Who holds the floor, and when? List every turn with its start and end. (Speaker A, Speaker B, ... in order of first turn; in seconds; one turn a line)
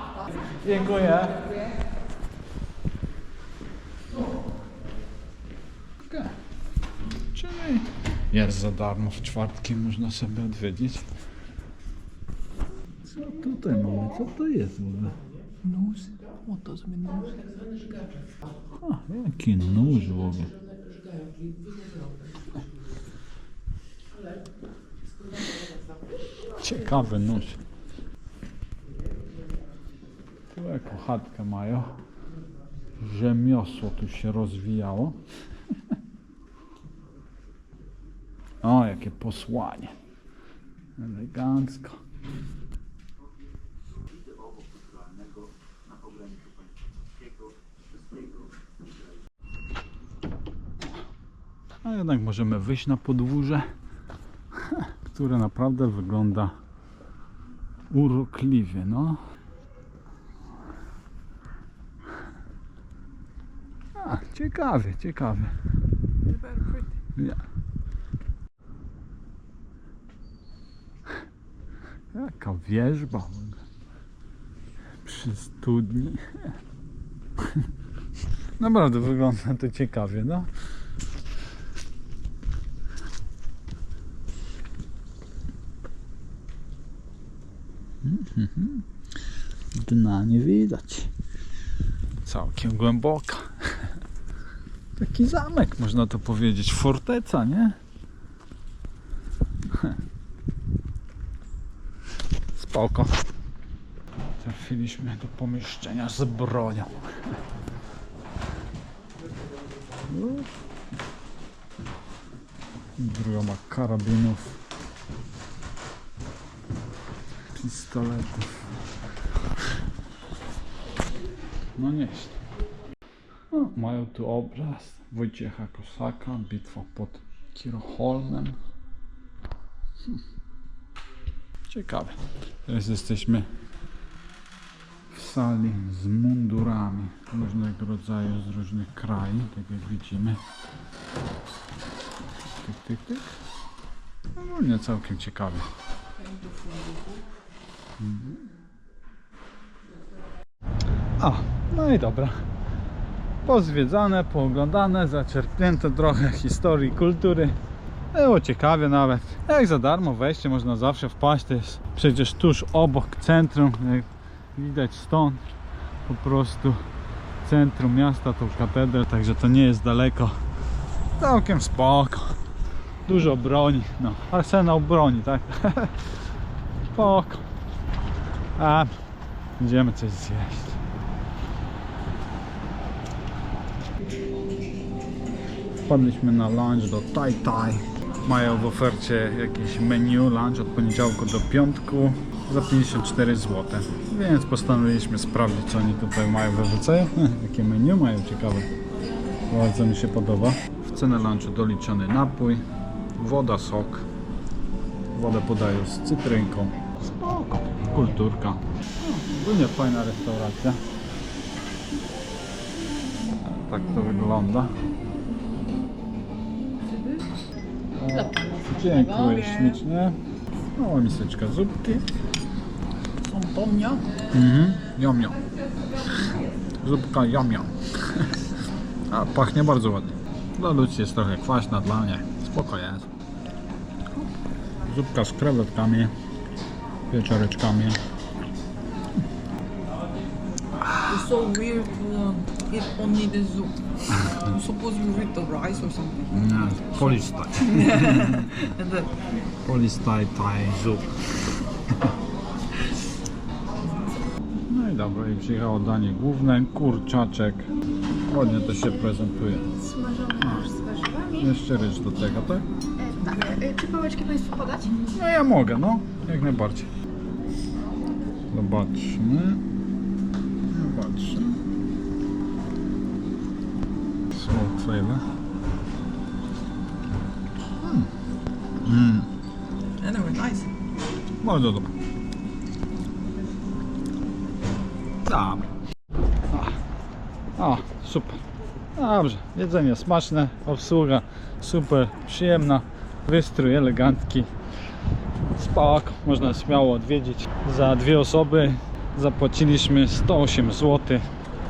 Speaker A: 0.5-1.6
Speaker A: 6.0-6.4
Speaker A: 7.3-11.1
Speaker A: 13.1-15.2
Speaker B: 15.6-17.9
Speaker A: 18.8-20.6
Speaker A: 26.6-27.6
Speaker A: 30.5-32.0
Speaker A: 33.0-35.2
Speaker A: 38.6-39.9
Speaker A: 41.0-42.0
Speaker A: 51.8-53.7
Speaker A: 54.6-56.5
Speaker A: 57.9-59.2
Speaker A: 64.0-65.5
Speaker B: 66.2-66.9
Speaker A: 67.2-67.4
Speaker A: 72.1-73.6
Speaker A: 75.0-76.5
Speaker A: 78.6-80.5
Speaker A: 88.0-88.9
Speaker A: 89.7-91.1
Speaker A: 92.2-93.9
Speaker A: 95.0-97.8
Speaker A: 102.5-103.2
Speaker A: 104.4-107.0
Speaker A: 110.1-110.5
Speaker A: 113.0-114.6
Speaker A: 117.5-118.7
Speaker A: 121.8-122.4
Speaker A: 123.5-128.6
Speaker A: 131.7-133.5
Speaker A: 135.1-140.4
Speaker A: 142.5-143.4
Speaker A: 144.4-145.7
Speaker B: 146.2-147.2
Speaker A: 148.0-148.4
Speaker A: 151.2-152.4
Speaker A: 153.4-157.6
Speaker A: 158.1-165.4
Speaker A: 166.1-166.8
Speaker A: 167.4-170.4
Speaker A: 171.2-172.3
Speaker A: 173.1-176.0
Speaker A: 176.9-177.4
Speaker A: 178.6-178.9
Speaker A: 179.6-180.8
Speaker A: 185.9-198.7
Speaker A: 199.5-202.6
Speaker A: 203.2-204.1
Speaker A: 205.1-210.8
Speaker A: 213.4-214.7
Speaker B: 216.8-217.2
Speaker A: 217.9-220.2
Speaker B: 218.2-219.8
Speaker A: 220.8-222.1
Speaker B: 223.2-224.1
Speaker A: 224.2-225.4
Speaker A: 226.8-228.4
Speaker A: 229.1-233.1
Speaker A: 234.8-236.1
Speaker A: 237.1-238.0
Speaker B: 241.1-246.3
Speaker A: 246.3-248.7
Speaker B: 247.6-249.1
Speaker A: 249.6-251.1
Speaker A: 254.7-257.7
Speaker A: 258.2-262.6
Speaker C: 259.9-261.4
Speaker C: 263.0-264.9
Speaker A: 264.9-266.9
Speaker A: 268.5-269.6
Speaker A: 270.7-271.6
Speaker A: 274.3-275.2
Speaker A: 277.8-278.1
Speaker A: 278.8-279.3
Speaker B: 280.0-280.7
Speaker A: 281.4-281.9
Speaker A: 285.2-285.7
Speaker A: 286.5-286.8
Speaker A: 287.6-288.4
Speaker A: 288.9-294.5
Speaker A: 295.6-301.3